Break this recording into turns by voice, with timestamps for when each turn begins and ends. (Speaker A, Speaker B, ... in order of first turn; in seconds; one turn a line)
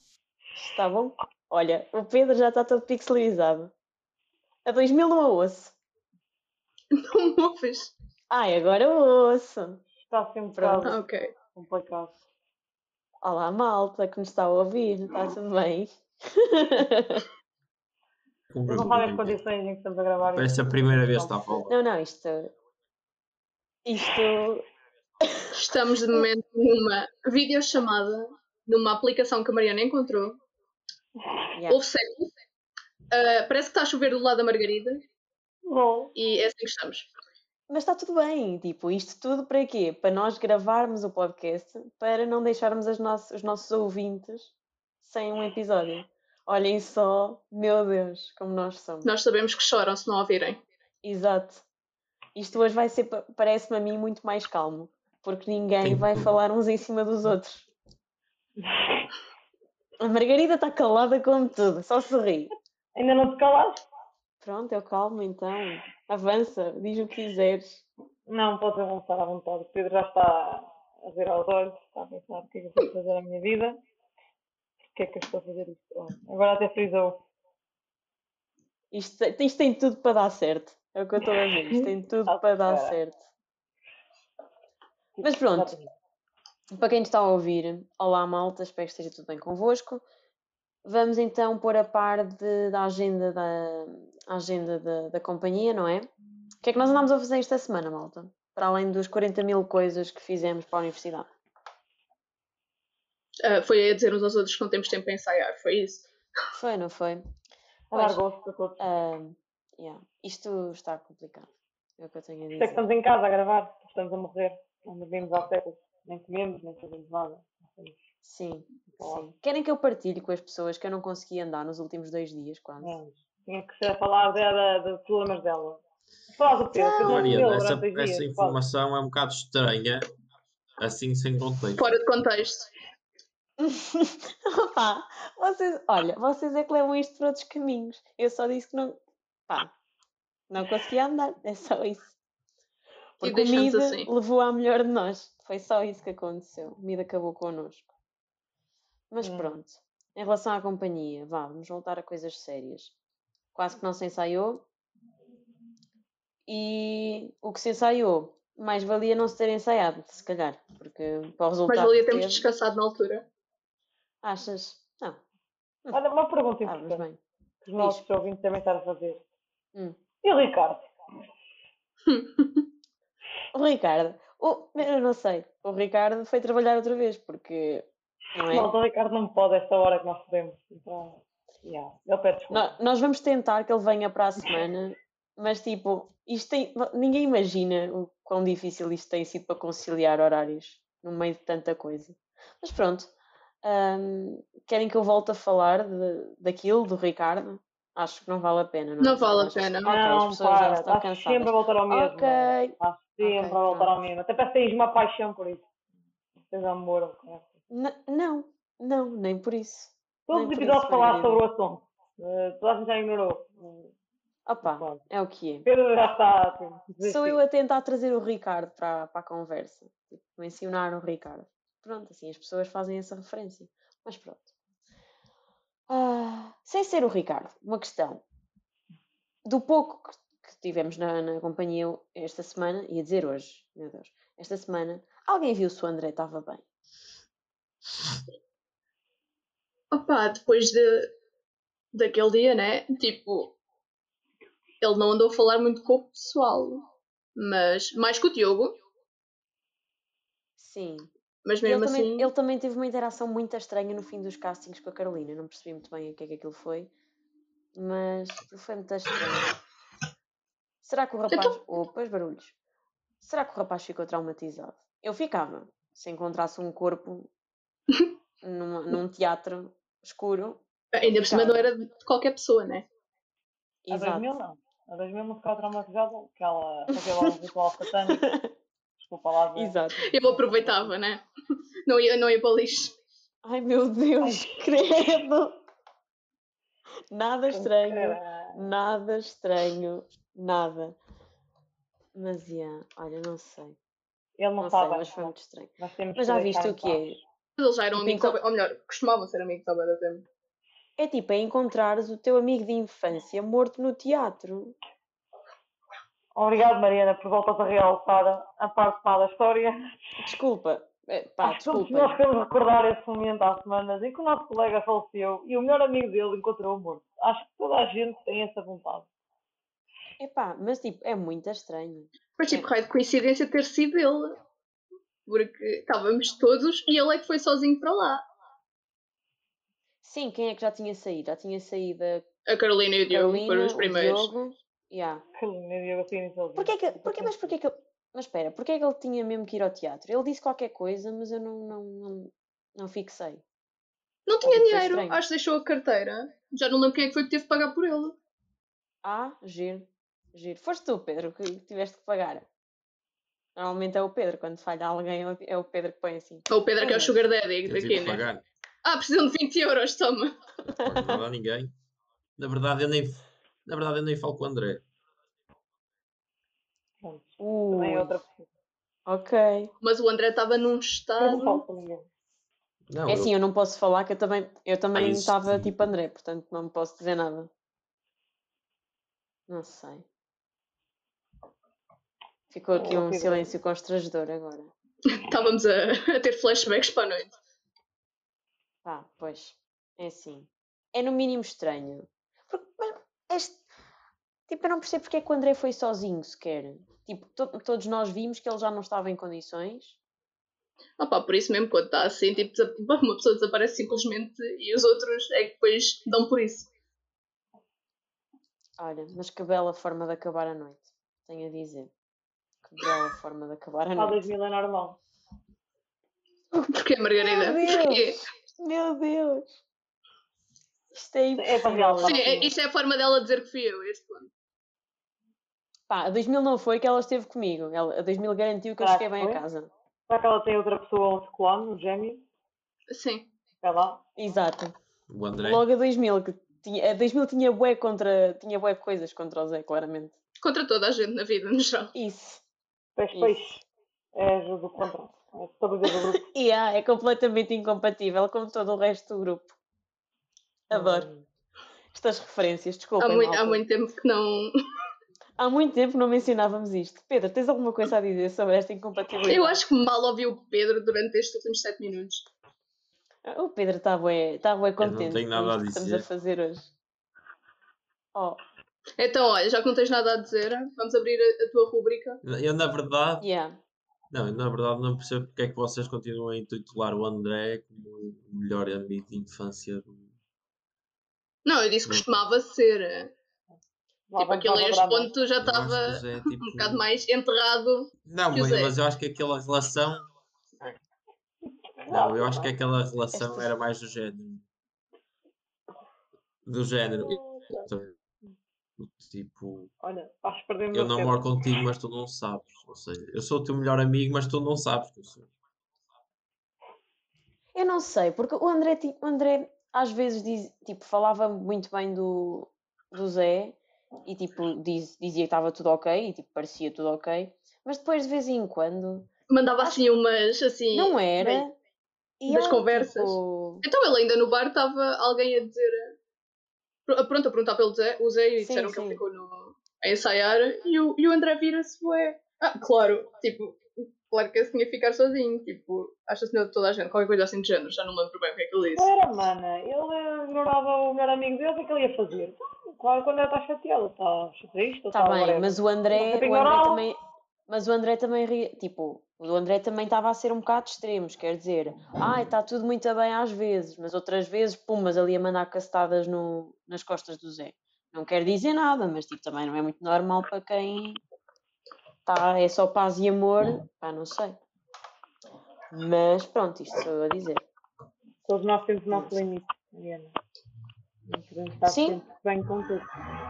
Speaker A: 0.6-3.7
Speaker A: 4.7-5.8
Speaker B: 7.0-7.9
Speaker A: 8.3-9.8
Speaker C: 10.1-11.0
Speaker A: 10.6-11.0
Speaker B: 10.8-11.3
Speaker C: 11.5-12.2
Speaker A: 13.2-17.3
Speaker D: 18.5-19.4
Speaker C: 18.7-21.7
Speaker D: 20.3-21.7
Speaker A: 21.7-22.5
Speaker A: 23.9-24.6
Speaker A: 25.2-25.5
Speaker B: 25.5-30.4
Speaker B: 31.7-32.3
Speaker B: 33.1-35.0
Speaker C: 35.7-36.1
Speaker B: 36.1-37.1
Speaker A: 37.7-49.1
Speaker B: 49.0-50.6
Speaker A: 51.0-51.6
Speaker A: 52.4-57.7
Speaker D: 55.8-56.3
Speaker C: 58.6-59.1
Speaker A: 60.0-62.5
Speaker C: 63.0-63.9
Speaker A: 64.4-67.8
Speaker C: 68.3-73.8
Speaker C: 74.9-77.2
Speaker A: 78.9-83.2
Speaker C: 81.7-83.0
Speaker C: 85.2-85.9
Speaker A: 85.2-85.8
Speaker A: 86.7-90.0
Speaker A: 90.8-96.1
Speaker A: 96.6-101.3
Speaker B: 103.4-106.1
Speaker A: 106.5-107.2
Speaker C: 107.9-108.8
Speaker A: 107.9-108.2
Speaker A: 108.8-112.8
Speaker C: 112.6-118.0
Speaker A: 118.2-123.0
Speaker C: 118.9-119.2
Speaker C: 122.8-125.8
Speaker C: 126.3-128.6
Speaker A: 126.7-127.5
Speaker D: 127.0-130.1
Speaker D: 130.8-131.8
Speaker B: 131.8-132.7
Speaker A: 133.6-139.7
Speaker A: 140.5-142.2
Speaker A: 143.2-147.9
Speaker B: 143.2-144.1
Speaker A: 149.1-152.9
Speaker C: 149.2-149.5
Speaker A: 153.5-154.7
Speaker A: 156.5-162.4
Speaker B: 161.7-163.3
Speaker A: 164.2-165.2
Speaker C: 165.9-167.0
Speaker A: 166.7-167.2
Speaker C: 167.6-169.2
Speaker A: 167.8-168.0
Speaker C: 170.2-170.8
Speaker B: 172.1-172.7
Speaker A: 173.5-178.7
Speaker C: 178.5-182.6
Speaker A: 182.5-193.1
Speaker A: 193.6-203.9
Speaker B: 199.0-199.9
Speaker C: 199.8-205.6
Speaker C: 206.5-207.5
Speaker A: 207.7-211.4
Speaker C: 210.3-213.9
Speaker A: 214.5-215.7
Speaker C: 214.6-215.0
Speaker C: 215.7-217.4
Speaker A: 217.0-224.5
Speaker A: 225.9-228.2
Speaker A: 229.5-236.6
Speaker B: 239.9-241.1
Speaker B: 241.9-243.5
Speaker B: 244.8-246.8
Speaker B: 247.4-248.8
Speaker A: 250.6-251.1
Speaker B: 251.4-252.3
Speaker A: 251.6-256.9
Speaker A: 257.8-259.5
Speaker A: 260.8-262.6
Speaker B: 261.3-261.6
Speaker A: 263.2-267.3
Speaker A: 268.4-271.7
Speaker B: 270.9-272.9
Speaker A: 273.9-274.3
Speaker C: 273.9-278.2
Speaker A: 278.1-278.5
Speaker C: 279.0-279.8
Speaker A: 279.6-280.6
Speaker B: 280.0-281.2
Speaker B: 281.9-282.9
Speaker A: 283.4-285.6
Speaker C: 284.2-284.6
Speaker A: 287.1-291.0
Speaker C: 287.5-288.7
Speaker A: 292.1-293.8
Speaker C: 294.4-297.2
Speaker A: 294.6-297.2
Speaker B: 297.6-300.2
Speaker A: 297.9-298.4
Speaker A: 301.0-304.8
Speaker C: 306.4-309.8
Speaker A: 310.2-312.2
Speaker C: 311.4-319.1
Speaker A: 320.2-322.7
Speaker B: 322.4-324.4
Speaker B: 325.3-328.2
Speaker A: 330.0-332.3
Speaker B: 332.5-334.3
Speaker A: 333.1-335.2
Speaker C: 335.4-337.5
Speaker A: 336.6-343.4
Speaker B: 344.3-348.1
Speaker A: 344.4-345.2
Speaker A: 349.0-352.5
Speaker A: 353.6-357.2
Speaker B: 356.5-358.2
Speaker D: 357.6-358.4
Speaker B: 358.8-360.3
Speaker A: 360.7-361.2
Speaker D: 360.8-361.7
Speaker D: 362.4-364.8
Speaker C: 367.0-368.5
Speaker A: 367.4-368.1
Speaker A: 369.1-369.7
Speaker B: 369.8-371.6
Speaker C: 371.2-372.1
Speaker D: 372.9-373.3
Speaker A: 373.1-377.5
Speaker D: 374.9-375.7
Speaker A: 379.5-380.1
Speaker A: 382.5-384.7
Speaker C: 382.7-383.5
Speaker B: 385.1-387.4
Speaker A: 388.8-393.6
Speaker A: 394.5-400.0
Speaker B: 401.0-406.7
Speaker A: 408.8-411.9
Speaker A: 412.6-414.3
Speaker C: 413.9-415.0
Speaker A: 416.5-419.6
Speaker B: 416.7-418.2
Speaker A: 420.9-422.5
Speaker C: 421.4-422.4
Speaker B: 422.1-424.3
Speaker A: 425.9-429.7
Speaker C: 428.8-429.4
Speaker C: 430.1-432.2
Speaker B: 432.9-433.3
Speaker C: 433.6-434.0
Speaker A: 434.2-434.8
Speaker D: 435.1-435.6
Speaker A: 435.4-440.2
Speaker B: 440.4-441.9
Speaker A: 441.9-442.4
Speaker C: 443.0-443.6
Speaker A: 443.1-443.5
Speaker C: 444.1-446.2
Speaker A: 446.2-449.6
Speaker A: 450.7-451.1
Speaker C: 450.7-451.3
Speaker A: 451.9-453.6
Speaker B: 453.0-454.5
Speaker A: 455.4-459.6
Speaker B: 459.3-462.2
Speaker A: 463.2-466.7
Speaker D: 464.8-466.1
Speaker B: 469.0-472.2
Speaker D: 472.2-473.3
Speaker A: 473.2-473.6
Speaker D: 474.1-480.1
Speaker B: 481.5-483.1
Speaker C: 484.1-485.1
Speaker B: 484.2-488.7
Speaker D: 485.4-486.8
Speaker D: 488.1-490.1
Speaker C: 491.8-492.5
Speaker D: 491.9-494.4
Speaker A: 493.1-493.5
Speaker D: 496.5-497.9
Speaker C: 497.0-497.7
Speaker D: 498.8-499.7
Speaker C: 499.8-501.2
Speaker D: 500.7-505.3
Speaker A: 507.6-519.1
Speaker B: 519.3-521.4
Speaker A: 520.7-521.5
Speaker A: 522.2-523.6
Speaker B: 522.3-525.9
Speaker B: 526.9-538.9
Speaker A: 528.4-529.0
Speaker C: 538.8-546.9
Speaker A: 544.9-561.0
Speaker A: 562.1-564.4
Speaker A: 565.7-567.5
Speaker C: 568.2-570.1
Speaker A: 568.9-569.2
Speaker C: 571.1-572.9
Speaker A: 571.7-572.0